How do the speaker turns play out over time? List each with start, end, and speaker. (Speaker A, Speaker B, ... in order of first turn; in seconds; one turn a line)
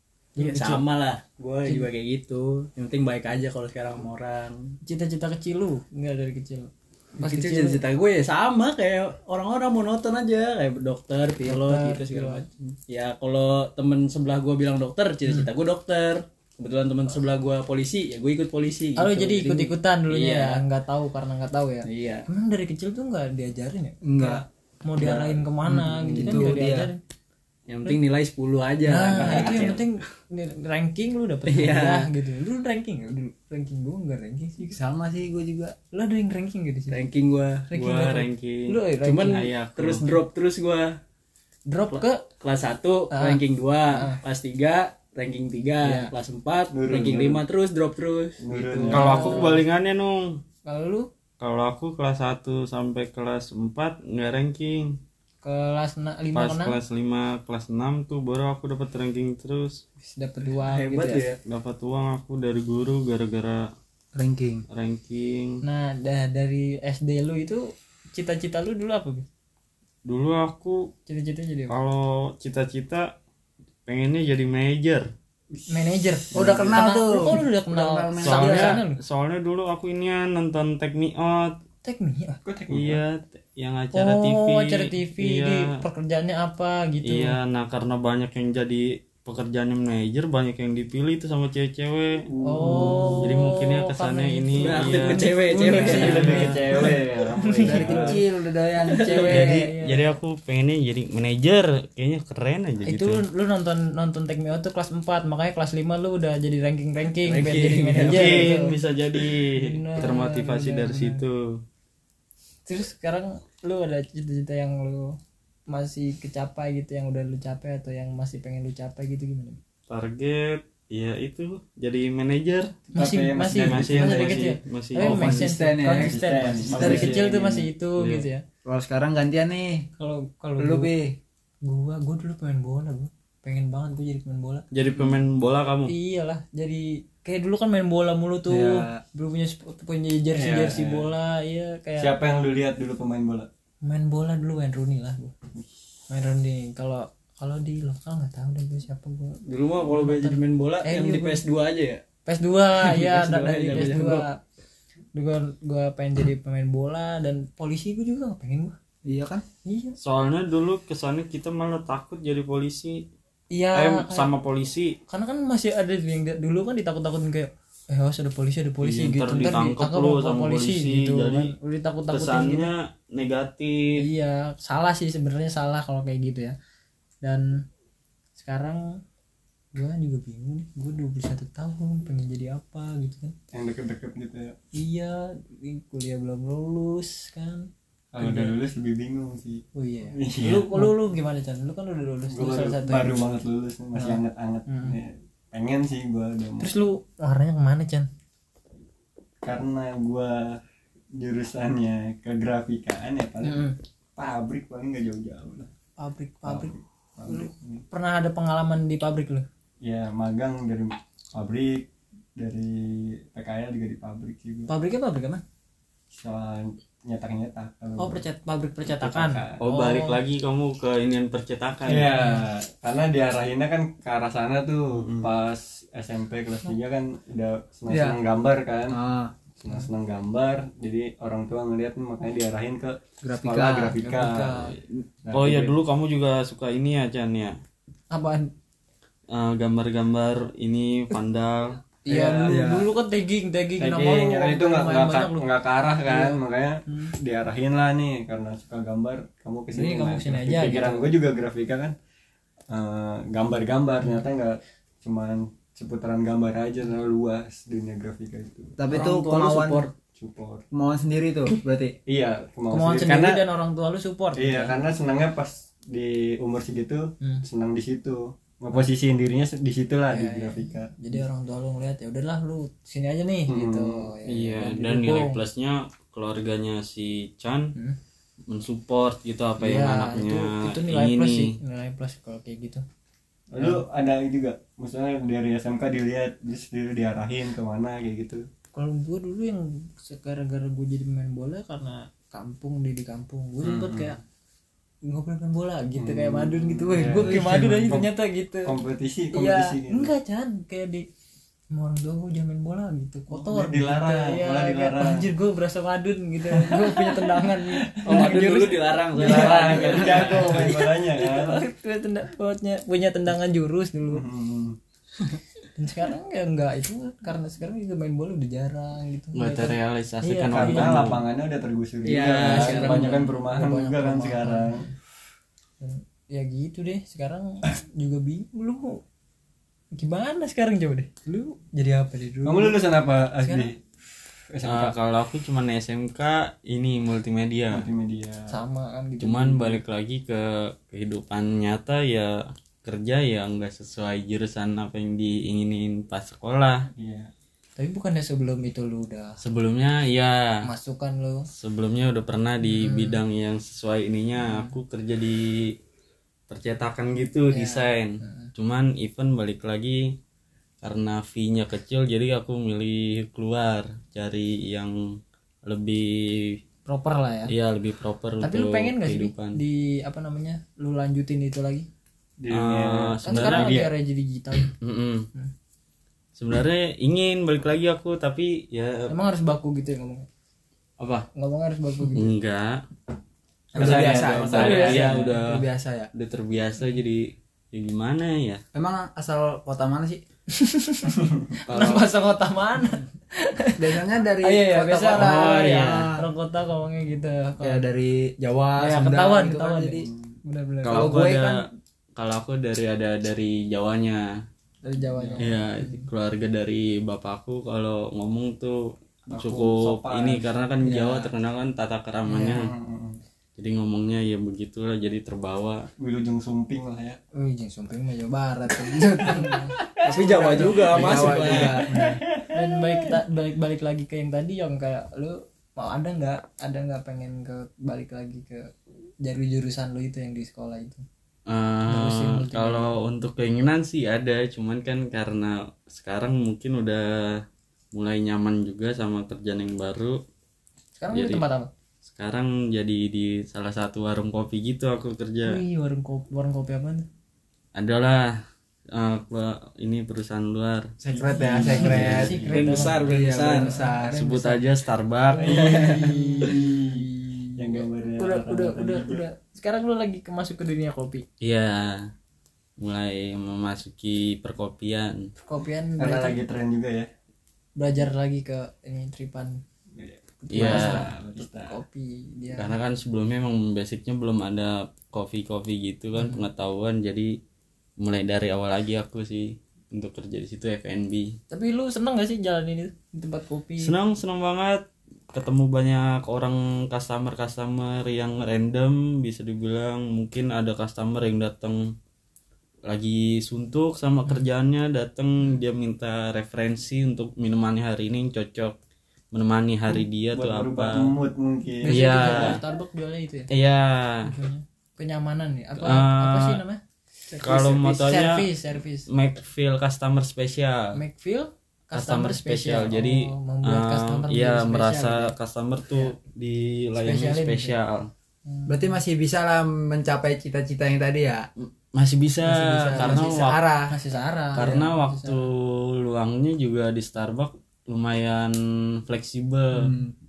Speaker A: 0.3-0.8
Speaker B: 0.4-4.7
Speaker A: 4.8-7.8
Speaker B: 7.2-20.6
Speaker A: 11.4-12.4
Speaker A: 19.0-27.0
Speaker B: 21.8-22.2
Speaker C: 24.0-24.4
Speaker B: 25.0-25.3
Speaker C: 25.6-26.9
Speaker B: 27.7-29.8
Speaker A: 28.9-34.8
Speaker B: 31.4-32.1
Speaker C: 34.7-35.8
Speaker A: 35.9-37.0
Speaker B: 36.9-37.6
Speaker A: 37.7-39.5
Speaker D: 37.7-40.0
Speaker B: 39.0-40.9
Speaker A: 41.7-42.2
Speaker B: 42.4-48.4
Speaker A: 43.1-44.2
Speaker A: 45.8-46.1
Speaker E: 46.7-47.4
Speaker E: 48.4-49.3
Speaker C: 48.5-49.1
Speaker A: 48.9-49.6
Speaker D: 48.9-50.4
Speaker A: 50.6-51.1
Speaker D: 51.4-55.0
Speaker A: 55.4-56.8
Speaker D: 56.3-59.8
Speaker A: 60.0-61.2
Speaker B: 60.6-61.4
Speaker D: 61.5-63.7
Speaker C: 64.1-64.6
Speaker D: 64.7-65.6
Speaker A: 65.6-69.2
Speaker D: 70.0-70.9
Speaker A: 71.1-71.8
Speaker D: 71.7-73.1
Speaker D: 73.8-75.0
Speaker A: 75.7-79.0
Speaker E: 76.3-76.8
Speaker C: 76.3-78.8
Speaker D: 78.2-81.6
Speaker A: 81.8-82.4
Speaker E: 82.4-83.0
Speaker D: 82.7-85.8
Speaker A: 83.9-87.3
Speaker D: 87.0-92.2
Speaker E: 92.3-93.3
Speaker A: 92.4-98.2
Speaker D: 93.2-96.5
Speaker B: 94.6-96.4
Speaker C: 95.6-97.0
Speaker E: 95.8-98.2
Speaker C: 97.6-99.7
Speaker A: 98.9-100.1
Speaker D: 99.2-103.2
Speaker A: 102.8-108.8
Speaker B: 107.2-108.5
Speaker D: 108.0-111.6
Speaker A: 109.5-111.2
Speaker A: 112.7-115.2
Speaker A: 115.7-119.6
Speaker D: 119.9-122.7
Speaker E: 122.9-124.5
Speaker A: 122.9-128.4
Speaker D: 123.5-125.5
Speaker C: 124.9-127.1
Speaker E: 125.8-127.7
Speaker D: 126.7-127.4
Speaker D: 128.0-128.2
Speaker C: 128.7-129.9
Speaker A: 130.0-130.9
Speaker C: 130.6-131.2
Speaker A: 131.6-134.6
Speaker D: 134.7-135.9
Speaker A: 135.8-142.2
Speaker C: 138.5-139.0
Speaker E: 140.3-141.1
Speaker E: 142.0-143.5
Speaker A: 143.8-145.3
Speaker A: 146.1-151.4
Speaker B: 149.5-152.0
Speaker A: 152.2-154.4
Speaker B: 152.8-154.2
Speaker A: 155.1-158.8
Speaker C: 159.0-159.4
Speaker A: 159.6-159.9
Speaker D: 160.0-163.1
Speaker A: 163.5-164.3
Speaker D: 163.7-165.0
Speaker A: 165.1-172.7
Speaker D: 168.8-171.5
Speaker D: 172.1-174.0
Speaker A: 174.0-176.6
Speaker A: 177.2-177.6
Speaker A: 178.4-179.0
Speaker A: 179.7-183.3
Speaker E: 183.5-184.5
Speaker A: 184.7-187.7
Speaker E: 188.1-190.9
Speaker A: 188.2-188.6
Speaker A: 189.7-193.4
Speaker E: 192.3-196.7
Speaker A: 193.9-195.0
Speaker A: 196.6-198.1
Speaker E: 199.4-200.6
Speaker E: 201.2-205.7
Speaker A: 203.4-203.8
Speaker A: 206.0-206.7
Speaker E: 206.4-207.8
Speaker A: 207.3-209.4
Speaker E: 209.8-214.7
Speaker A: 214.7-215.4
Speaker E: 216.1-218.2
Speaker A: 218.0-220.2
Speaker E: 218.9-219.6
Speaker D: 219.6-222.2
Speaker E: 221.9-228.9
Speaker A: 222.1-222.4
Speaker C: 227.9-228.2
Speaker C: 228.9-229.3
Speaker E: 229.6-234.7
Speaker C: 233.2-234.0
Speaker A: 233.9-234.7
Speaker E: 235.2-235.8
Speaker D: 235.3-237.5
Speaker A: 238.1-238.5
Speaker D: 239.3-241.8
Speaker A: 242.0-245.5
Speaker E: 242.1-242.9
Speaker E: 243.8-251.9
Speaker A: 246.0-247.1
Speaker A: 249.7-251.1
Speaker E: 252.7-258.8
Speaker A: 254.0-254.3
Speaker C: 258.8-259.9
Speaker B: 258.9-259.9
Speaker E: 260.1-260.6
Speaker C: 260.7-261.9
Speaker E: 262.1-263.4
Speaker A: 262.7-264.8
Speaker E: 264.4-271.2
Speaker A: 270.1-275.4
Speaker E: 273.5-274.1
Speaker D: 274.3-277.7
Speaker D: 278.5-281.6
Speaker A: 279.6-282.8
Speaker E: 283.5-288.4
Speaker A: 283.6-283.8
Speaker A: 288.7-294.2
Speaker E: 293.6-294.1
Speaker A: 295.1-298.8
Speaker E: 295.9-298.1
Speaker E: 298.6-300.1
Speaker A: 299.3-301.1
Speaker A: 301.7-314.2
Speaker E: 303.3-305.3
Speaker E: 306.5-308.4
Speaker B: 308.0-310.7
Speaker E: 309.1-311.6
Speaker E: 314.1-314.8
Speaker A: 315.8-321.1
Speaker D: 319.3-321.2
Speaker E: 320.5-324.9
Speaker B: 322.0-323.2
Speaker A: 322.2-324.8
Speaker A: 325.8-329.0
Speaker A: 329.9-332.8
Speaker E: 332.4-333.8
Speaker A: 333.4-333.7
Speaker E: 334.5-334.9
Speaker D: 334.6-337.9
Speaker E: 337.7-338.5
Speaker A: 338.5-339.8
Speaker D: 339.2-342.3
Speaker D: 342.8-346.9
Speaker E: 346.9-347.3
Speaker A: 347.8-349.4
Speaker D: 349.4-350.4
Speaker A: 350.6-351.5
Speaker D: 351.5-355.7
Speaker A: 352.6-353.2
Speaker A: 354.4-354.8
Speaker D: 356.5-360.2
Speaker A: 357.5-358.5
Speaker D: 360.8-365.0
Speaker D: 365.6-366.6
Speaker A: 366.9-367.5
Speaker D: 367.5-369.6
Speaker A: 368.4-371.9
Speaker E: 372.4-373.8
Speaker D: 372.5-373.9
Speaker A: 373.2-374.7
Speaker D: 374.7-375.3
Speaker D: 376.4-379.1
Speaker A: 379.1-380.3
Speaker D: 381.0-381.2
Speaker A: 381.3-382.3
Speaker D: 382.1-382.8
Speaker C: 383.7-386.1
Speaker E: 383.8-385.3
Speaker D: 383.8-388.6
Speaker A: 384.5-385.2
Speaker C: 388.7-390.2
Speaker A: 390.5-397.8
Speaker D: 391.7-392.0
Speaker C: 393.8-396.2
Speaker D: 395.1-396.1
Speaker C: 397.6-400.1
Speaker A: 398.8-401.2
Speaker D: 400.8-404.2
Speaker C: 400.9-401.6
Speaker A: 404.8-406.1
Speaker D: 405.4-408.8
Speaker E: 409.3-410.5
Speaker D: 409.3-412.7
Speaker A: 412.3-412.6
Speaker E: 412.5-413.2
Speaker D: 413.6-415.9
Speaker E: 416.0-417.2
Speaker A: 417.3-419.8
Speaker E: 419.8-423.2
Speaker B: 420.0-421.8
Speaker C: 420.2-422.2
Speaker A: 420.3-420.8
Speaker A: 422.5-431.0
Speaker D: 431.5-437.4
Speaker A: 431.9-432.9
Speaker D: 437.9-440.2
Speaker A: 441.0-441.7
Speaker D: 441.1-441.4
Speaker D: 442.1-445.6
Speaker A: 445.4-447.1
Speaker D: 447.7-448.4
Speaker D: 448.9-450.9
Speaker C: 451.0-452.4
Speaker E: 451.1-452.5
Speaker A: 451.3-454.7
Speaker D: 451.7-452.9
Speaker B: 452.5-453.7
Speaker C: 453.0-454.2
Speaker D: 454.0-456.0
Speaker A: 455.3-461.2
Speaker E: 455.4-459.2
Speaker D: 461.4-462.1
Speaker D: 462.8-465.3
Speaker A: 465.4-466.4
Speaker E: 466.0-467.1
Speaker A: 467.8-469.6
Speaker E: 469.9-471.8
Speaker A: 470.4-472.8
Speaker D: 470.5-471.1
Speaker D: 472.5-477.4
Speaker A: 476.1-476.4
Speaker D: 478.0-481.4
Speaker A: 481.5-483.9
Speaker D: 483.8-491.9
Speaker D: 492.9-498.7
Speaker D: 499.3-501.1
Speaker E: 500.3-502.4
Speaker A: 501.8-503.5
Speaker D: 501.9-502.6
Speaker D: 503.5-504.4
Speaker A: 504.2-509.1
Speaker D: 505.8-506.6
Speaker D: 507.4-508.5
Speaker D: 509.1-511.0
Speaker A: 510.9-515.3
Speaker D: 511.9-518.1
Speaker A: 517.0-517.7
Speaker A: 518.5-518.9
Speaker C: 518.7-521.5
Speaker D: 521.6-523.6
Speaker A: 522.4-525.5
Speaker C: 522.6-523.9
Speaker D: 524.5-530.0
Speaker C: 529.7-530.1